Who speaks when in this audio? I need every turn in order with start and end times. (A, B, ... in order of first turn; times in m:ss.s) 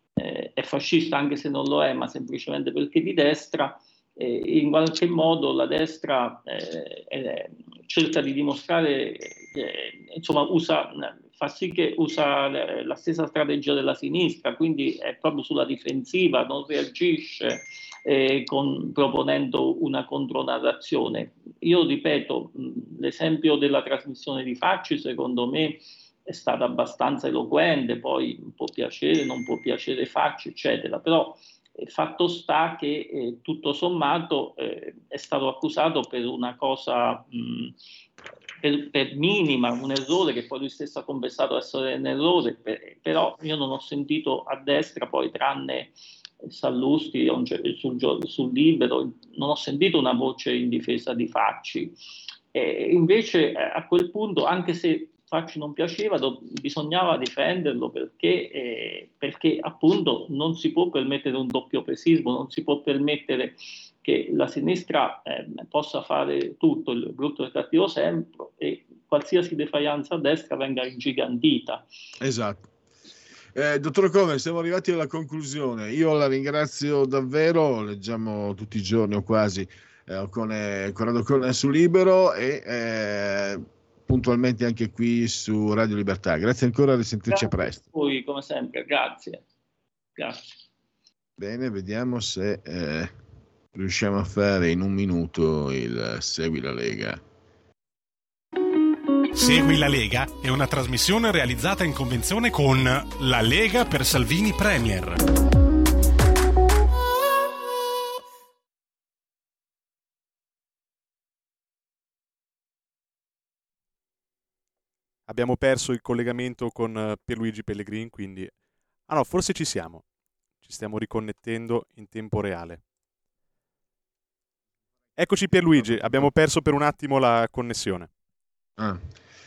0:00.2-0:37.7 A
0:38.6-0:45.9 A
0:46.4-0:52.0 A
0:52.5-1:11.9 A
1:12.2-1:12.7 B
1:13.6-1:27.8 B
1:27.3-1:29.4 A
1:30.2-1:30.6 A
1:31.4-1:33.1 B
1:33.7-1:37.2 B
1:39.3-1:45.2 C
1:55.3-2:00.1 D
2:00.6-2:02.8 D
2:05.2-2:08.1 D
2:05.7-2:06.3 B